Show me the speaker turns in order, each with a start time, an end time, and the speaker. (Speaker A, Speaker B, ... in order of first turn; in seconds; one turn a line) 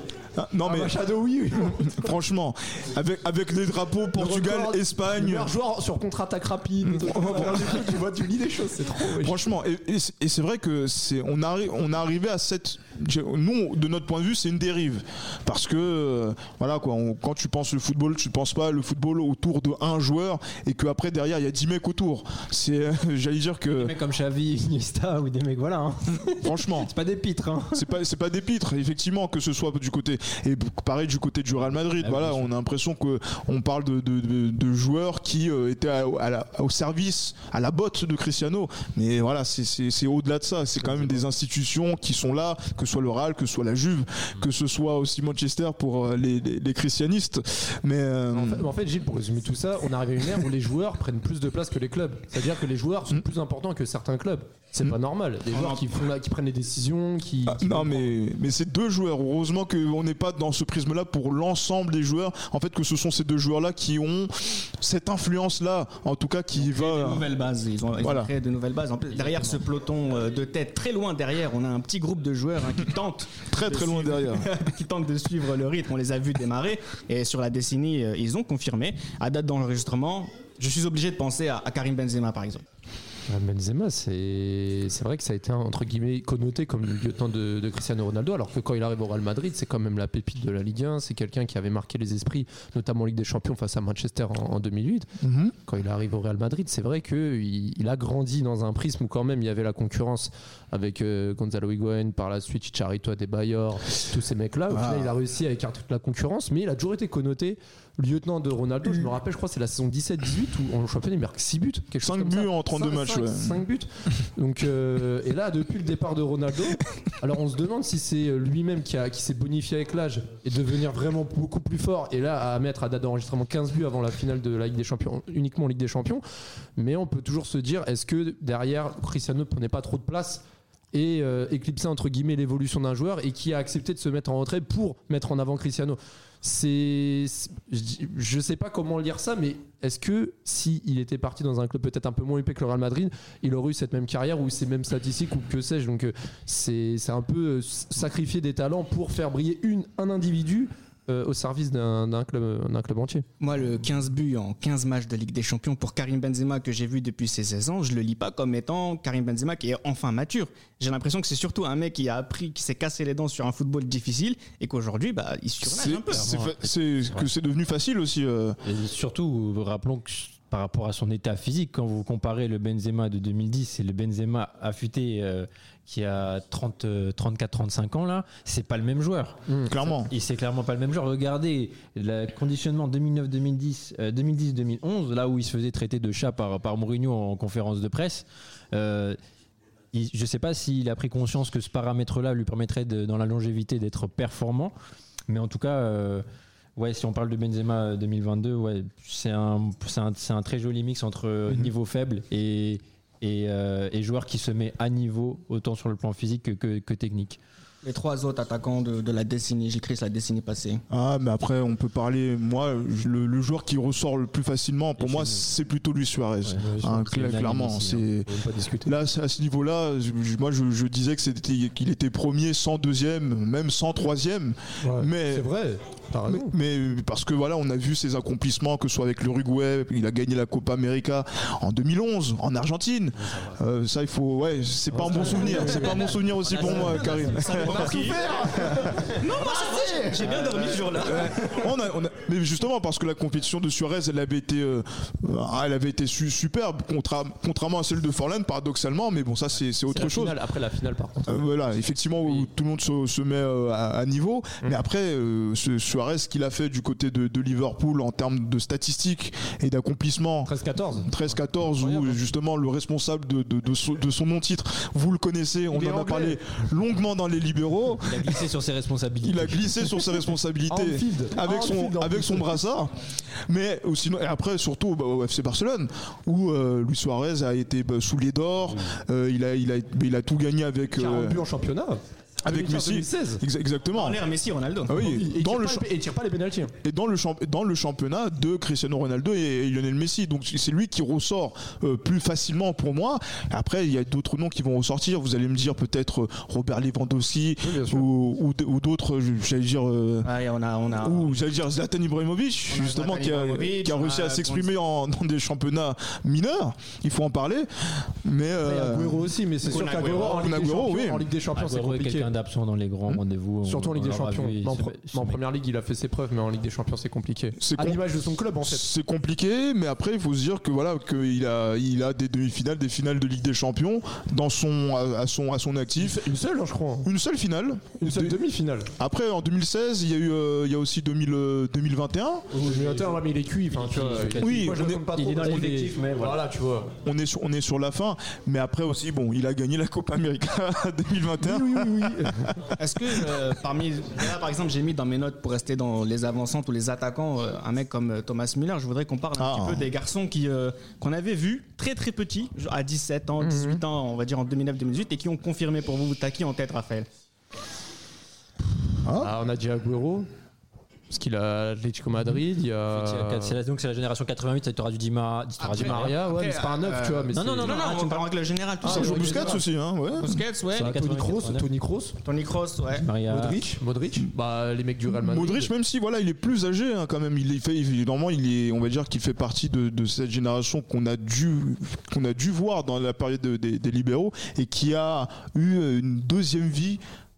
Speaker A: 0.3-0.9
Speaker B: 0.6-2.1
Speaker A: 1.6-5.5
Speaker B: 4.2-9.4
Speaker A: 6.8-7.9
Speaker A: 9.1-23.9
Speaker C: 23.8-27.9
Speaker A: 26.3-26.9
Speaker A: 27.7-48.7
Speaker C: 32.0-32.5
Speaker B: 40.8-41.2
Speaker B: 48.3-58.1
Speaker D: 55.5-55.9
Speaker A: 57.5-67.2
Speaker D: 66.5-82.6
Speaker A: 68.0-68.3
Speaker C: 69.1-69.6
Speaker A: 73.5-74.4
Speaker B: 83.3-95.1
Speaker A: 95.2-95.5
Speaker B: 95.7-126.2
Speaker A: 104.7-105.1
Speaker A: 112.0-113.6
Speaker B: 126.8-153.2
Speaker D: 153.4-166.3
Speaker A: 165.6-168.6
Speaker C: 166.1-167.3
Speaker C: 168.6-179.4
Speaker B: 179.5-179.7
Speaker A: 179.7-180.1
Speaker C: 180.0-189.2
Speaker C: 189.9-194.7
Speaker C: 195.3-196.2
Speaker C: 196.8-207.4
Speaker D: 207.8-210.8
Speaker A: 210.9-225.5
Speaker C: 215.0-215.4
Speaker C: 216.4-218.8
Speaker B: 224.8-226.5
Speaker A: 226.3-238.8
Speaker B: 234.9-240.5
Speaker C: 235.0-238.0
Speaker D: 237.3-238.2
Speaker D: 239.2-241.3
Speaker C: 240.2-241.1
Speaker A: 241.0-250.4
Speaker B: 249.9-251.5
Speaker A: 251.3-268.4
Speaker B: 260.4-261.2
Speaker B: 265.7-266.4
Speaker C: 268.0-269.9
Speaker A: 269.2-281.4
Speaker B: 270.7-272.6
Speaker B: 280.9-283.4
Speaker A: 282.5-284.2
Speaker D: 283.9-284.9
Speaker A: 284.9-285.8
Speaker B: 284.9-286.7
Speaker A: 286.8-300.3
Speaker B: 297.6-298.1
Speaker D: 300.2-301.3
Speaker A: 301.0-309.3
Speaker D: 302.7-304.7
Speaker B: 308.6-312.3
Speaker D: 309.6-310.5
Speaker A: 310.1-311.3
Speaker C: 311.5-315.4
Speaker B: 313.6-318.9
Speaker A: 317.6-318.0
Speaker A: 318.6-326.2
Speaker B: 326.0-327.1
Speaker A: 327.0-328.4
Speaker B: 328.0-328.9
Speaker A: 329.0-332.5
Speaker B: 332.5-336.9
Speaker C: 332.5-336.4
Speaker A: 334.4-335.0
Speaker A: 337.0-342.7
Speaker B: 341.4-342.5
Speaker D: 342.8-357.1
Speaker A: 349.4-349.9
Speaker B: 353.4-353.8
Speaker A: 359.0-359.4
Speaker B: 359.1-360.3
Speaker B: 361.1-363.6
Speaker C: 362.9-366.2
Speaker D: 365.6-369.6
Speaker B: 365.7-367.8
Speaker C: 367.3-368.3
Speaker B: 368.8-369.6
Speaker A: 368.8-370.4
Speaker D: 370.2-370.9
Speaker C: 370.7-371.7
Speaker B: 370.7-372.1
Speaker D: 372.2-373.0
Speaker C: 372.9-373.6
Speaker B: 373.3-375.7
Speaker A: 375.1-387.0